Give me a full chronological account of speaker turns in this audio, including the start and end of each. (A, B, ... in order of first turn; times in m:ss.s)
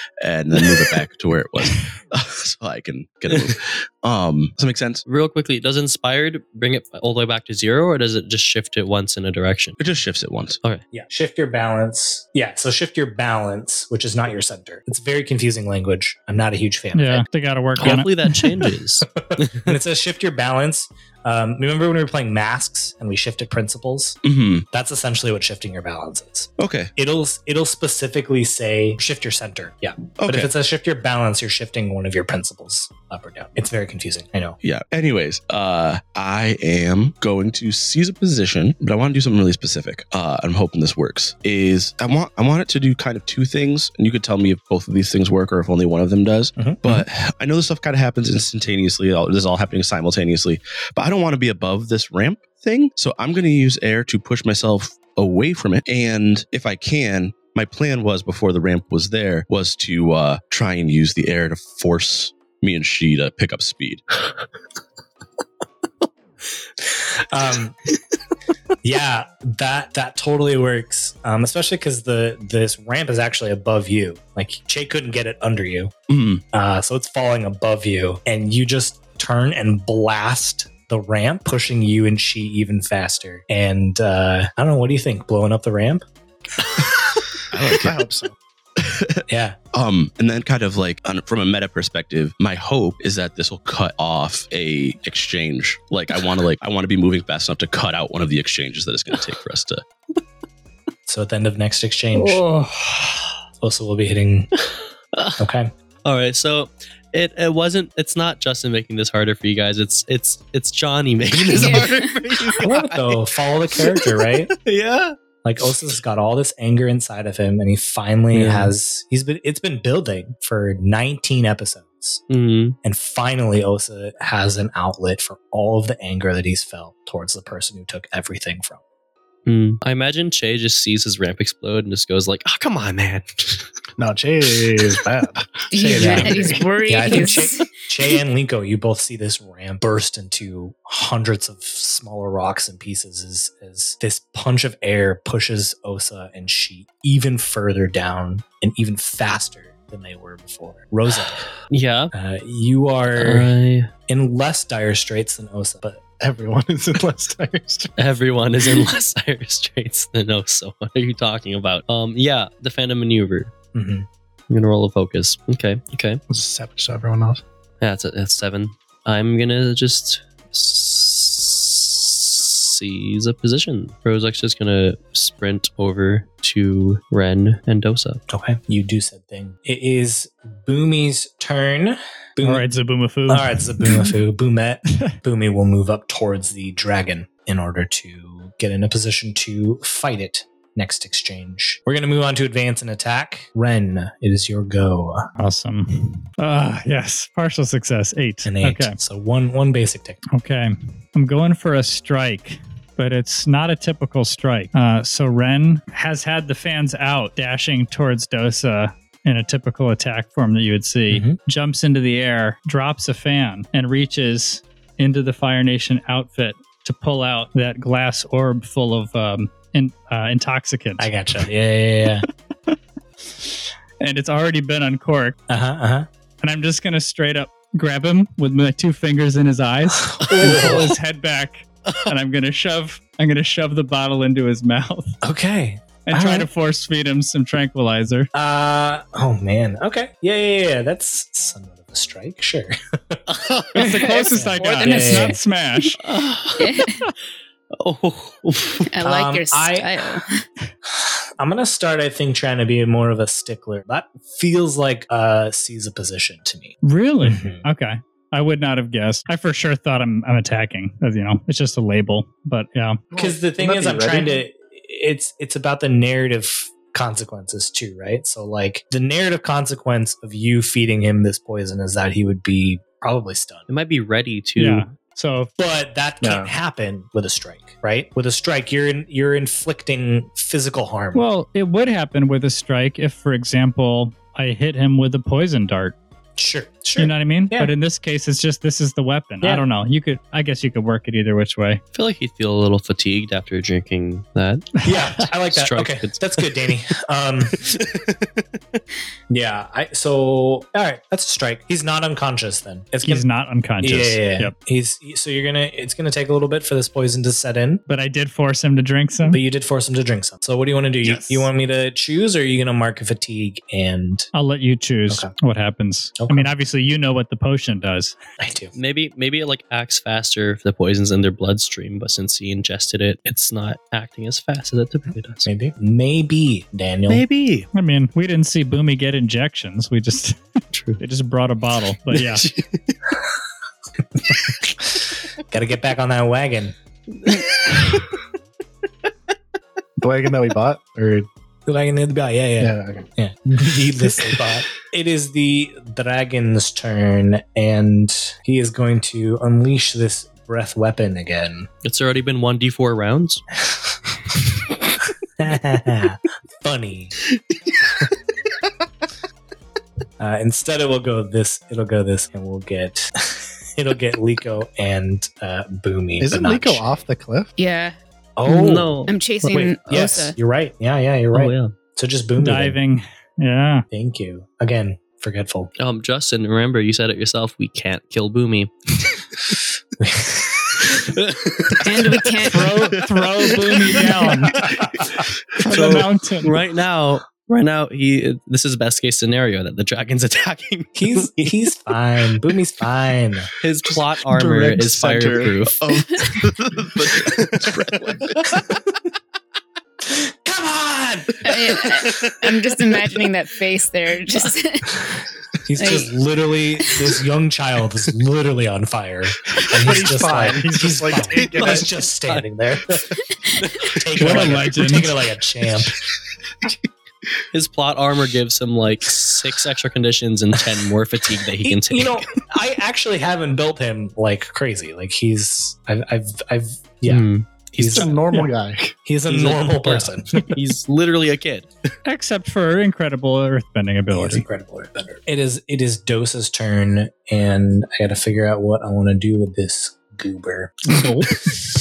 0:00.2-0:05.0 A
0:05.0-0:09.8 B
0:09.8-0:10.6 A
0:10.9-0:17.3 C
0:16.9-0:18.6 D
0:17.8-0:19.8 B
0:19.2-0:24.2 C
0:24.2-0:24.7 A
0:24.7-0:34.6 C
0:26.6-0:26.9 A
0:30.2-0:30.5 A
0:34.6-1:04.0 A
0:46.6-0:47.1 C
1:07.2-1:07.8 C
1:08.8-1:15.9 C
1:16.1-1:16.4 A
1:16.5-1:26.0 C
1:27.5-1:28.0 A
1:27.8-1:28.3 E
1:28.8-1:29.2 A
1:29.3-1:29.6 C
1:29.7-1:39.8 A
1:41.1-1:42.4 C
1:43.6-1:44.5 C
1:45.1-1:45.4 B
1:45.4-1:45.7 C
1:46.0-1:55.9 B
1:51.5-1:52.3 F
1:52.6-1:54.5 C
1:55.4-2:02.2 C
1:58.3-1:58.7 B
2:02.3-2:02.8 B
2:02.8-2:08.8 C
2:09.5-2:13.7 B
2:14.0-2:16.7 E
2:15.7-2:17.6 F
2:15.8-2:31.5 C
2:31.7-2:32.1 B
2:32.1-2:33.6 C
2:33.2-2:33.9 B
2:34.1-2:36.0 C
2:36.2-2:37.9 E
2:38.0-2:43.5 B
2:43.7-2:44.1 C
2:44.5-2:46.2 B
2:46.3-2:47.4 E
2:47.8-2:58.2 B
2:58.3-3:02.7 C
3:02.4-3:04.1 D
3:03.3-3:15.3 C
3:15.4-3:19.0 D
3:18.4-3:20.2 C
3:20.3-3:41.1 D
3:31.1-3:31.4 C
3:41.0-3:42.3 C
3:44.0-3:45.4 D
3:45.5-3:46.1 C
3:46.4-3:55.2 D
3:50.1-3:51.0 C
3:50.4-3:50.8 B
3:55.2-3:56.5 C
3:56.1-3:58.3 D
3:58.3-4:03.2 C
4:03.3-4:04.0 B
4:03.8-4:06.0 D
4:03.8-4:05.8 F
4:04.3-4:05.4 C
4:06.0-4:06.7 B
4:06.6-4:07.0 F
4:07.7-4:08.9 B
4:08.9-4:10.4 F
4:09.0-4:09.9 C
4:11.0-4:17.6 C
4:16.8-4:23.0 D
4:23.1-4:24.4 E
4:23.2-4:33.7 C
4:33.7-4:34.9 B
4:34.6-4:35.5 D
4:35.6-4:41.3 C
4:36.2-4:36.5 E
4:41.1-4:46.0 D
4:46.4-4:47.7 C
4:47.0-4:51.8 D
4:51.9-4:56.7 B
4:54.8-4:57.6 C
4:57.5-4:58.8 B
4:59.3-5:03.2 C
5:03.0-5:04.5 D
5:03.8-5:07.8 C
5:07.9-5:09.4 D
5:09.3-5:14.3 C
5:11.0-5:11.5 D
5:14.3-5:18.2 D
5:16.2-5:16.5 C
5:18.4-5:18.7 C
5:18.7-5:25.5 B
5:25.5-5:27.3 C
5:27.1-5:27.7 B
5:27.7-5:30.4 D
5:30.7-5:31.0 B
5:31.0-5:32.5 D
5:32.1-5:33.0 B
5:35.5-5:36.8 C
5:37.2-5:38.1 B
5:40.0-5:41.3 E
5:41.7-5:51.7 C
5:42.6-5:43.1 E
5:51.8-5:53.4 B
5:55.4-5:57.2 C
6:00.2-6:07.1 C
6:06.2-6:07.6 E
6:07.6-6:08.0 F
6:08.4-6:08.9 C
6:08.5-6:09.4 B
6:09.1-6:10.4 F
6:09.5-6:12.8 C
6:11.3-6:11.7 B
6:12.4-6:13.9 D
6:13.9-6:15.7 C
6:15.8-6:19.2 B
6:20.0-6:20.8 C
6:21.0-6:22.2 B
6:21.8-6:22.8 F
6:22.5-6:24.7 D
6:23.5-6:24.6 B
6:25.6-6:26.6 D
6:25.7-6:31.5 B
6:31.0-6:33.5 C
6:33.6-6:36.1 B
6:34.3-6:38.6 A
6:37.1-6:38.4 B
6:40.1-6:41.5 C
6:41.4-6:45.0 F
6:45.6-6:53.0 C
6:45.8-6:46.1 F
6:49.7-6:51.9 E
6:51.4-6:52.4 B
6:53.6-6:54.4 B
6:54.0-6:56.0 C
6:54.2-6:55.2 D
6:57.5-7:02.2 B
7:01.6-7:08.3 C
7:07.0-7:08.1 B
7:07.8-7:09.0 E
7:09.0-7:10.5 C
7:09.3-7:11.7 B
7:12.1-7:14.4 D
7:14.1-7:21.3 C